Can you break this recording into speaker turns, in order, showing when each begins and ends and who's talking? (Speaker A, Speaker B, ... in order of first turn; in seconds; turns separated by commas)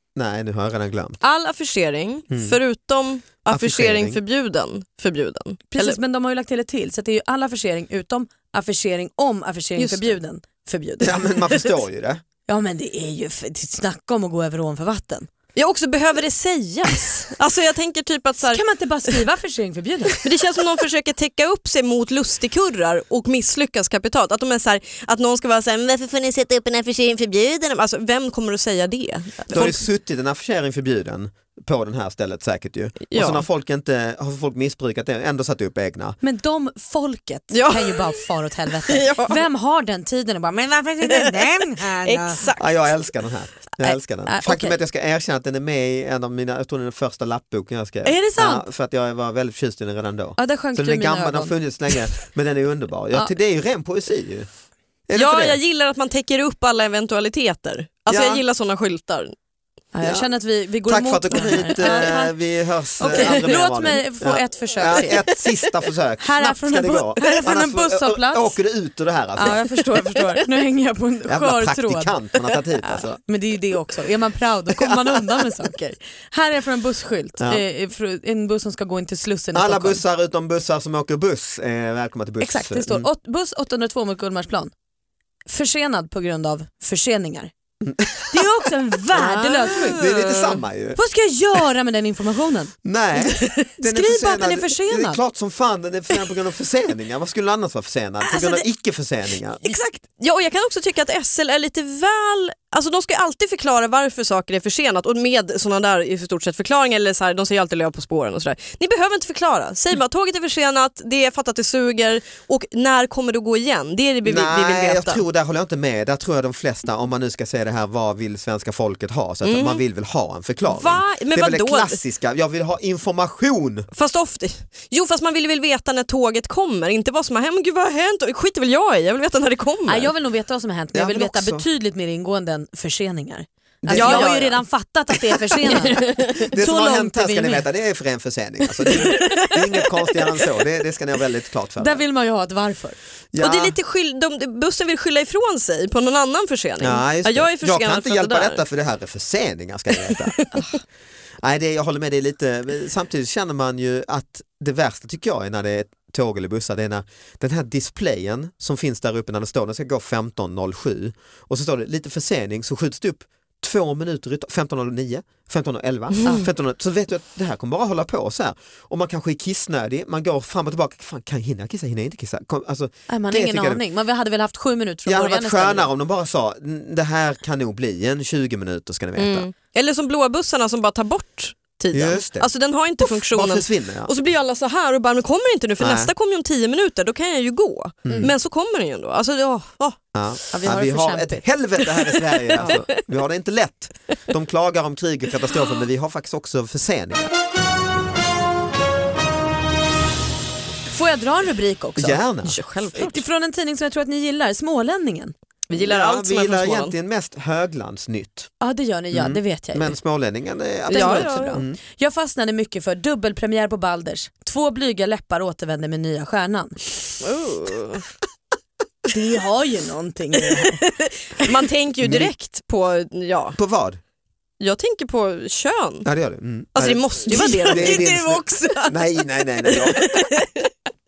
Speaker A: 0.1-1.2, Speaker B: 1.2-6.0, Speaker A: 2.3-2.6, Speaker A: 3.5-4.2, Speaker C: 5.7-11.6, Speaker B: 9.8-10.2, Speaker A: 11.0-12.2, Speaker C: 12.5-15.3, Speaker B: 15.6-19.2, Speaker C: 18.5-20.2, Speaker B: 20.2-29.8, Speaker A: 29.5-36.2, Speaker B: 33.1-33.4, Speaker C: 36.2-42.5, Speaker B: 37.5-38.2, Speaker B: 38.9-39.4, Speaker B: 41.1-42.9, Speaker A: 42.6-54.5, Speaker C: 43.8-44.8, Speaker C: 48.0-48.7, Speaker C: 50.4-52.0, Speaker A: 55.1-55.6, Speaker B: 55.1-59.3, Speaker A: 58.1-58.4, Speaker C: 59.9-62.4, Speaker A: 60.0-60.3, Speaker A: 60.8-69.6, Speaker B: 61.8-62.1, Speaker C: 63.0-65.2, Speaker B: 63.1-63.6, Speaker B: 64.9-65.5, Speaker C: 66.2-68.6, Speaker C: 69.3-72.2, Speaker A: 71.3-73.2, Speaker C: 72.8-80.0, Speaker A: 74.8-75.4, Speaker A: 77.4-77.6, Speaker A: 79.5-83.1, Speaker C: 82.4-84.7, Speaker C: 85.5-87.5, Speaker A: 87.8-88.4, Speaker C: 88.3-90.0, Speaker B: 89.1-90.6, Speaker A: 89.7-91.0, Speaker C: 90.9-95.2, Speaker A: 92.8-99.7, Speaker C: 98.3-98.6, Speaker C: 99.7-99.9, Speaker B: 99.8-115.2, Speaker A: 114.2-123.9, Speaker B: 119.4-119.8, Speaker B: 120.7-122.0, Speaker B: 123.9-130.1, Speaker C: 129.9-137.6, Speaker A: 130.9-131.7, Speaker A: 133.8-134.6, Speaker B: 133.9-134.6, Speaker B: 135.6-136.4, Speaker A: 136.0-142.0, Speaker B: 138.9-139.9, Speaker C: 141.8-143.0, Speaker A: 143.3-143.8, Speaker B: 143.4-148.6, Speaker A: 146.8-150.4, Speaker B: 150.0-150.5, Speaker A: 151.4-173.8, Speaker C: 173.1-175.9, Speaker A: 175.1-179.5, Speaker B: 179.2-190.0, Speaker A: 181.9-182.5, Speaker A: 183.1-184.1, Speaker A: 185.8-186.1, Speaker A: 188.1-188.3, Speaker A: 190.1-197.3, Speaker C: 190.5-191.4, Speaker B: 192.1-193.0, Speaker C: 200.9-202.2, Speaker A: 202.0-202.6, Speaker B: 202.4-203.2, Speaker C: 202.9-205.3, Speaker B: 205.7-206.9, Speaker A: 205.7-208.5, Speaker C: 208.6-209.9, Speaker A: 209.1-211.8, Speaker B: 210.9-211.6, Speaker C: 210.9-216.8, Speaker B: 217.2-218.0, Speaker C: 219.1-221.6, Speaker B: 221.4-223.6, Speaker A: 222.0-222.3, Speaker A: 223.6-224.0, Speaker B: 224.6-226.1, Speaker A: 226.1-230.1, Speaker B: 226.8-228.1, Speaker C: 227.3-230.5